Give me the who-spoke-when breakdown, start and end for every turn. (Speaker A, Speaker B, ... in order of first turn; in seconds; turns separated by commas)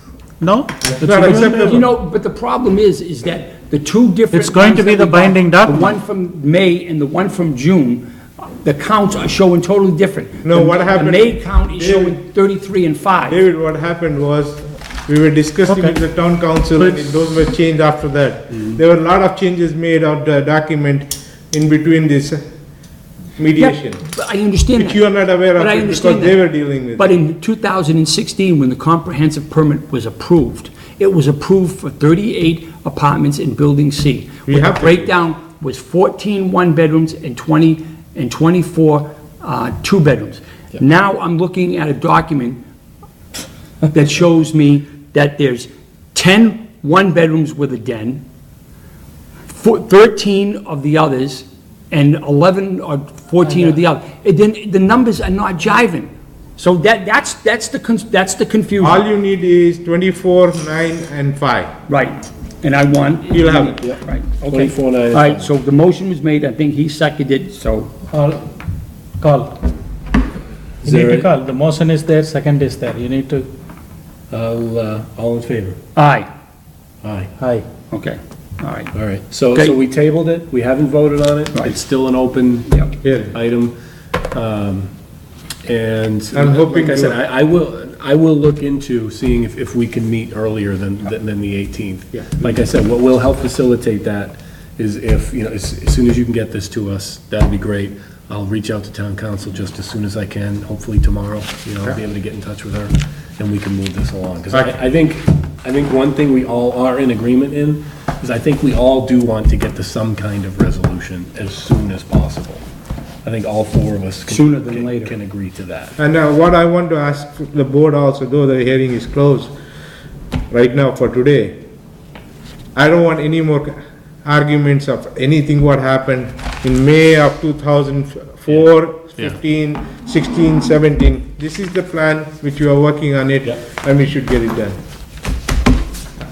Speaker A: 0.4-1.8, Speaker B: 1.0-1.8, Speaker C: 1.2-13.4, Speaker A: 4.3-5.9, Speaker B: 10.4-12.2, Speaker B: 13.2-22.4, Speaker A: 15.7-15.9, Speaker B: 23.4-24.1, Speaker C: 23.6-26.4, Speaker B: 24.7-27.1, Speaker C: 26.9-42.6, Speaker B: 34.5-35.1, Speaker C: 43.9-48.2, Speaker C: 49.5-59.0, Speaker B: 58.8-61.7, Speaker C: 61.9-67.9, Speaker B: 63.3-63.8, Speaker D: 63.8-65.5, Speaker A: 68.1-68.4, Speaker A: 69.2-69.6, Speaker A: 70.8-73.5, Speaker D: 70.8-71.3, Speaker D: 74.3-75.8, Speaker C: 76.0-76.3, Speaker D: 77.0-77.3, Speaker A: 77.4-77.7, Speaker C: 77.9-78.9, Speaker D: 78.9-83.8, Speaker B: 83.0-83.3, Speaker D: 84.3-84.9, Speaker D: 85.6-112.6, Speaker B: 86.3-87.2, Speaker D: 113.2-116.0, Speaker C: 114.3-115.2, Speaker B: 116.0-119.5, Speaker B: 120.5-121.6, Speaker B: 122.7-134.8